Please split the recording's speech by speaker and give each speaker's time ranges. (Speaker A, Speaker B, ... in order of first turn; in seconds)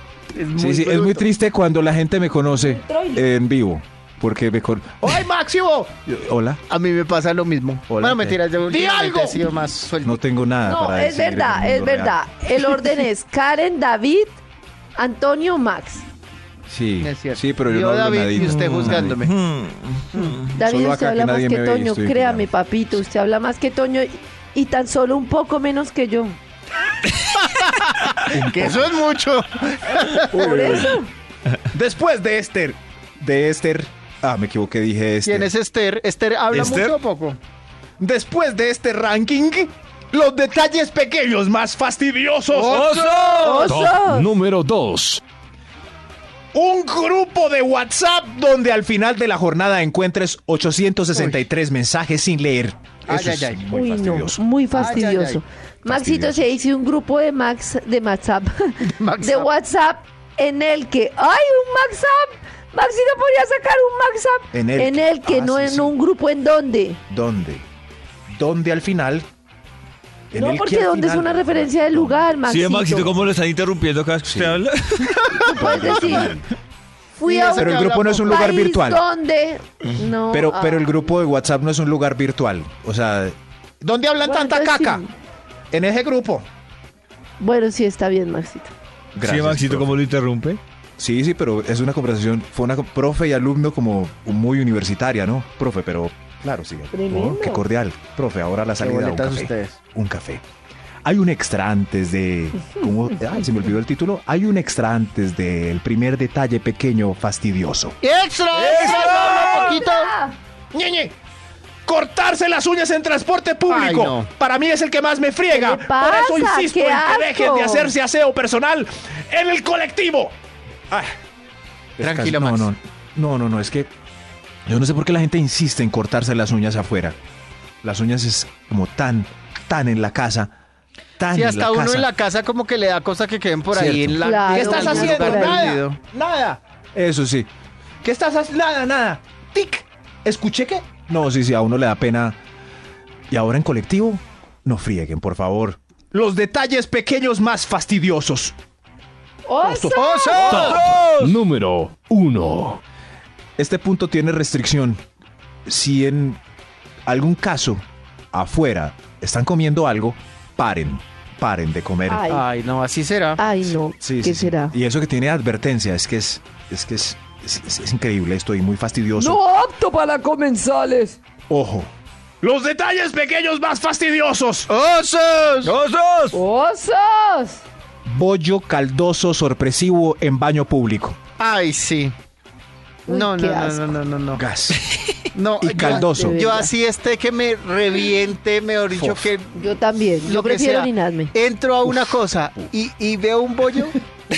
Speaker A: 0.3-1.3, 6.7-10.2, 17.0-19.3, 27.4-30.9, 35.2-37.4, 42.5-43.7, 51.1-51.4, 53.1-53.6, 54.7-55.4, 58.8-59.5, 75.6-76.0, 77.2-78.5, 98.8-99.8, 108.0-110.1, 113.7-114.3, 122.0-122.7, 131.3-136.0, 149.9-150.9, 162.3-163.4, 174.7-175.7, 181.4-182.1, 183.1-184.4, 185.3-189.6, 190.2-194.0
Speaker B: 0.6-6.6, 7.9-9.4, 10.0-12.2, 16.7-19.2, 20.6-23.0, 28.3-28.9, 31.7-35.5, 38.0-42.8, 46.5-54.8, 55.8-56.5, 64.5-65.9, 67.1-67.6, 68.3-69.2, 70.3-72.3, 74.2-74.6, 75.3-76.5, 77.5-79.0, 80.3-85.0, 85.7-86.5, 89.1-90.0, 91.0-100.4, 101.0-108.0, 108.5-109.8, 110.7-111.1, 111.8-120.3, 120.9-121.1, 122.0-123.9, 124.7-127.2, 127.8-130.5, 131.2-132.1, 133.7-137.5, 138.0-142.4, 143.3-148.5, 149.6-150.8, 153.6-155.0, 155.7-156.4, 157.1-157.8, 158.3-162.3, 164.0-169.4, 171.5-171.9, 172.4-174.7, 178.1-181.2, 184.3-184.8, 185.6-186.5, 188.9-189.3
Speaker C: 2.5-3.2, 10.6-14.4, 14.9-16.1, 20.5-26.4, 30.3-31.1, 43.4-44.3, 53.7-67.0, 70.3-73.2, 75.4-76.3, 77.1-80.9, 84.2-85.1, 87.4-88.7, 96.9-97.6, 108.6-110.4, 115.5-117.9, 134.2-135.7, 149.4-150.6, 162.1-162.5, 163.4-164.8, 169.2-171.2, 176.3-177.6, 183.1-183.9, 185.7-186.7, 189.5-191.3
Speaker D: 18.4-20.5, 36.5-37.0, 42.6-43.7, 72.5-75.3, 89.2-90.6, 150.6-151.3, 175.6-176.4
Speaker E: 43.6-45.2, 150.4-152.8